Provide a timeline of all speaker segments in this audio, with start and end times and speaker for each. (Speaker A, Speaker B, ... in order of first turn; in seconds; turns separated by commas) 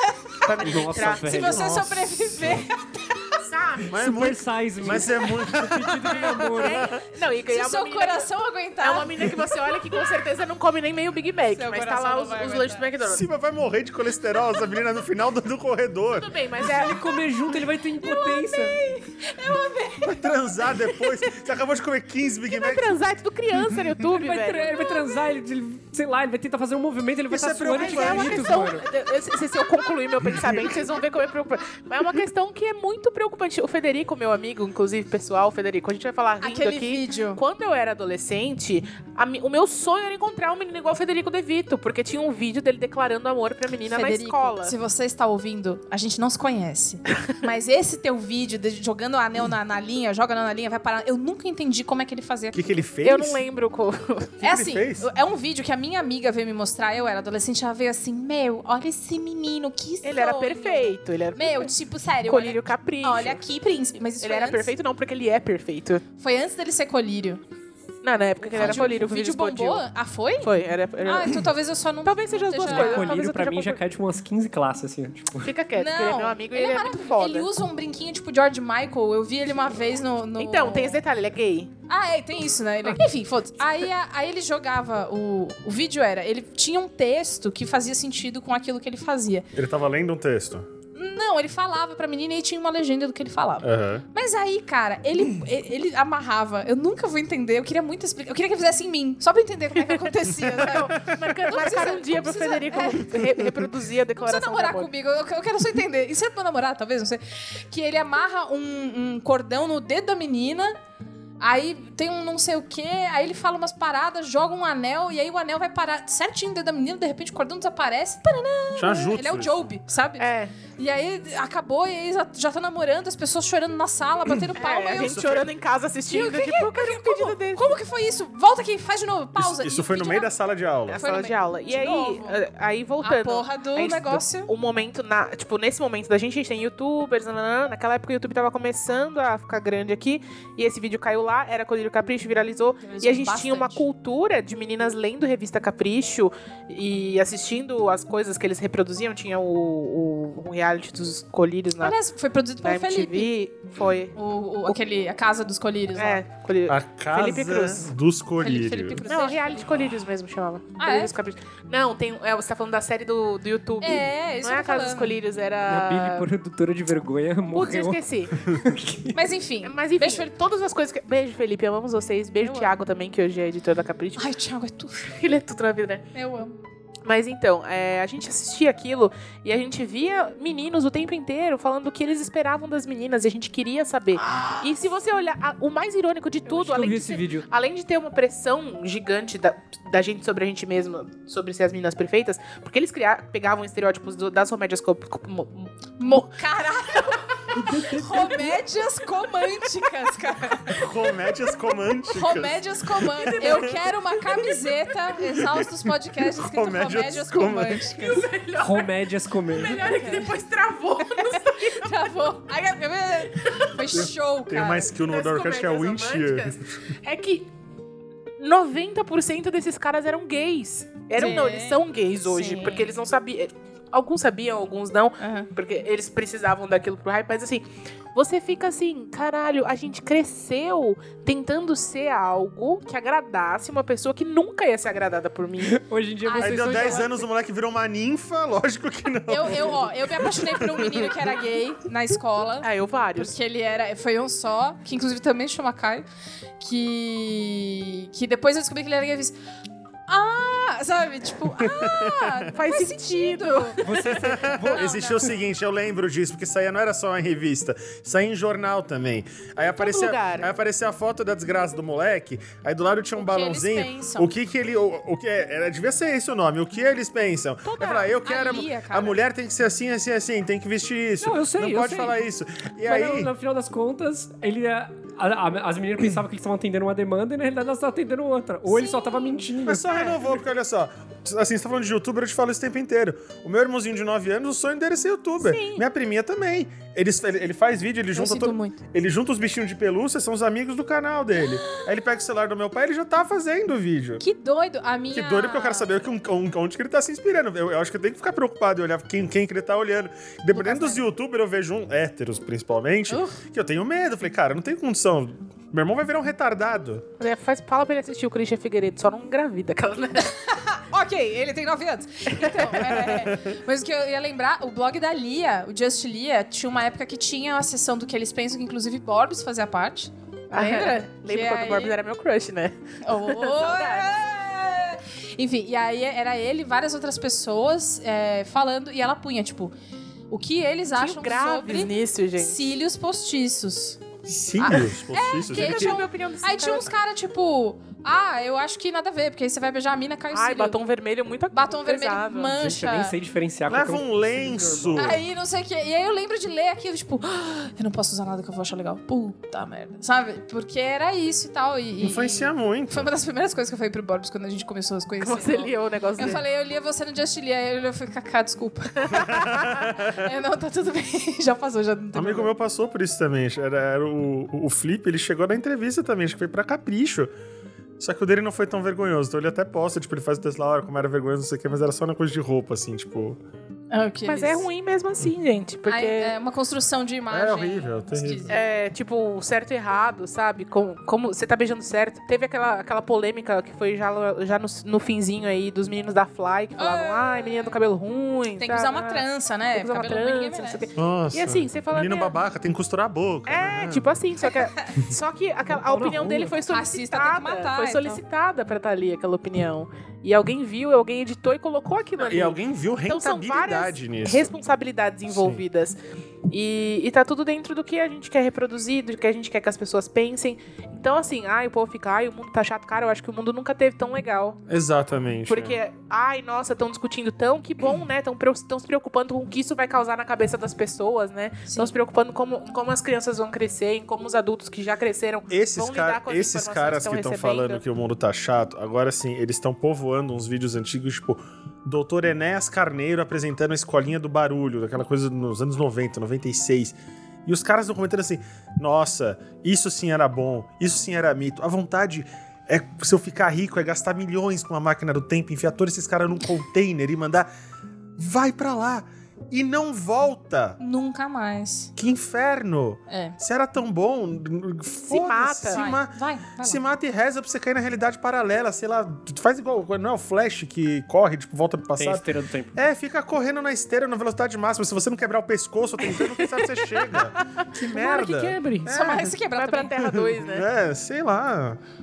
Speaker A: 0.4-1.3, Speaker B: 0.6-1.8, Speaker C: 1.2-3.4, Speaker D: 1.3-2.6, Speaker A: 3.5-3.9, Speaker D: 3.9-7.0, Speaker B: 3.9-6.9, Speaker C: 5.8-6.5, Speaker A: 6.5-8.3, Speaker C: 7.5-10.1, Speaker A: 8.8-13.2, Speaker C: 11.5-12.9, Speaker D: 13.0-16.3, Speaker A: 16.2-17.2, Speaker B: 16.6-18.8, Speaker C: 18.0-20.3, Speaker D: 20.0-23.0, Speaker A: 22.5-24.8, Speaker B: 24.0-28.9, Speaker D: 27.3-28.5, Speaker A: 27.6-44.7, Speaker D: 30.2-30.8, Speaker C: 36.4-37.4, Speaker C: 43.9-52.6, Speaker D: 52.5-53.4, Speaker A: 53.0-54.4, Speaker D: 54.4-55.1, Speaker C: 54.4-64.7, Speaker A: 60.0-61.7, Speaker A: 62.2-63.4, Speaker A: 64.2-66.0, Speaker C: 66.2-67.4, Speaker A: 68.0-69.9, Speaker C: 68.4-70.5, Speaker B: 68.6-69.0, Speaker A: 70.4-71.5, Speaker C: 71.0-73.2, Speaker A: 72.0-73.8, Speaker B: 72.7-75.5, Speaker A: 75.4-77.5, Speaker C: 75.8-81.0, Speaker A: 80.4-81.7, Speaker C: 81.9-89.5, Speaker D: 89.5-90.7, Speaker C: 90.9-103.2, Speaker D: 93.6-94.0, Speaker A: 99.8-104.9, Speaker C: 104.2-110.7, Speaker C: 111.4-125.2, Speaker D: 118.8-119.6, Speaker A: 120.2-120.5, Speaker A: 124.6-127.8, Speaker D: 124.9-125.5, Speaker C: 126.1-130.3, Speaker D: 129.3-131.0, Speaker A: 130.9-151.9, Speaker C: 131.0-132.4, Speaker C: 133.0-134.5, Speaker C: 142.8-143.8, Speaker C: 151.8-153.3, Speaker A: 152.6-154.1, Speaker C: 154.1-156.2, Speaker A: 155.9-157.9, Speaker D: 156.7-159.0, Speaker C: 158.4-159.7, Speaker A: 159.0-166.3, Speaker C: 160.8-161.1, Speaker C: 163.8-165.2, Speaker B: 165.7-169.2, Speaker A: 167.5-168.3, Speaker C: 169.1-170.3, Speaker A: 169.6-174.3, Speaker C: 172.4-172.7, Speaker C: 174.2-175.1, Speaker A: 175.1-176.1, Speaker C: 176.1-176.5, Speaker A: 177.1-195.7, Speaker C: 184.2-184.7, Speaker B: 186.5-187.5, Speaker C: 196.0-200.9, Speaker B: 197.5-198.4, Speaker D: 200.7-203.8, Speaker C: 202.1-208.1, Speaker D: 205.3-205.7, Speaker D: 206.3-207.9, Speaker A: 207.8-208.9, Speaker B: 208.6-210.0, Speaker A: 209.5-212.0, Speaker C: 209.6-210.3, Speaker C: 211.1-214.9, Speaker D: 213.9-216.8, Speaker A: 215.0-217.5, Speaker A: 218.4-235.8, Speaker C: 221.2-222.9, Speaker C: 225.2-225.5, Speaker B: 235.6-237.2, Speaker C: 236.2-237.1, Speaker D: 236.4-241.2, Speaker C: 239.3-246.0, Speaker A: 242.6-243.3, Speaker C: 246.6-249.3, Speaker C: 250.1-253.8, Speaker D: 251.6-252.5, Speaker A: 252.5-254.3, Speaker B: 253.8-255.0, Speaker D: 254.0-273.3, Speaker C: 254.7-255.3, Speaker A: 259.6-260.5, Speaker C: 263.2-264.3, Speaker A: 267.6-268.1, Speaker C: 268.2-269.2, Speaker B: 271.2-272.2, Speaker B: 272.8-280.4, Speaker C: 278.7-279.4, Speaker D: 279.6-294.2, Speaker A: 285.4-285.8, Speaker C: 288.1-288.8, Speaker C: 294.2-295.9, Speaker D: 295.1-307.0, Speaker C: 300.5-301.0, Speaker C: 303.1-303.4, Speaker A: 307.2-310.3, Speaker C: 310.3-322.0, Speaker A: 312.3-313.1, Speaker D: 312.9-313.5, Speaker A: 320.5-324.2, Speaker C: 323.0-329.7, Speaker C: 330.3-334.0, Speaker A: 330.9-332.6, Speaker D: 334.2-336.0, Speaker C: 334.6-340.8, Speaker A: 335.4-336.9, Speaker A: 340.3-342.6, Speaker C: 341.5-343.1, Speaker B: 342.6-345.2, Speaker D: 343.7-345.2, Speaker C: 344.9-362.5, Speaker D: 352.0-353.1, Speaker A: 355.2-356.4, Speaker A: 359.0-359.9, Speaker D: 359.2-360.2, Speaker D: 362.1-367.3, Speaker D: 368.0-373.4, Speaker C: 373.9-374.7, Speaker A: 374.2-376.3, Speaker C: 375.9-378.5, Speaker D: 377.3-378.6, Speaker A: 378.5-392.4, Speaker C: 386.8-387.7, Speaker C: 388.6-390.9, Speaker D: 390.9-394.1, Speaker A: 393.5-414.6, Speaker B: 395.7-396.6, Speaker C: 396.7-398.2, Speaker D: 402.2-404.5, Speaker D: 405.3-405.6, Speaker D: 414.7-415.8, Speaker A: 415.5-427.8, Speaker C: 421.6-421.9, Speaker D: 425.5-447.5, Speaker D: 448.2-450.8, Speaker C: 450.8-451.9, Speaker D: 451.9-469.4, Speaker C: 453.1-453.4, Speaker A: 455.1-455.9, Speaker C: 455.7-456.8, Speaker B: 462.0-462.7, Speaker A: 466.0-470.7, Speaker C: 468.8-469.9, Speaker D: 470.0-471.8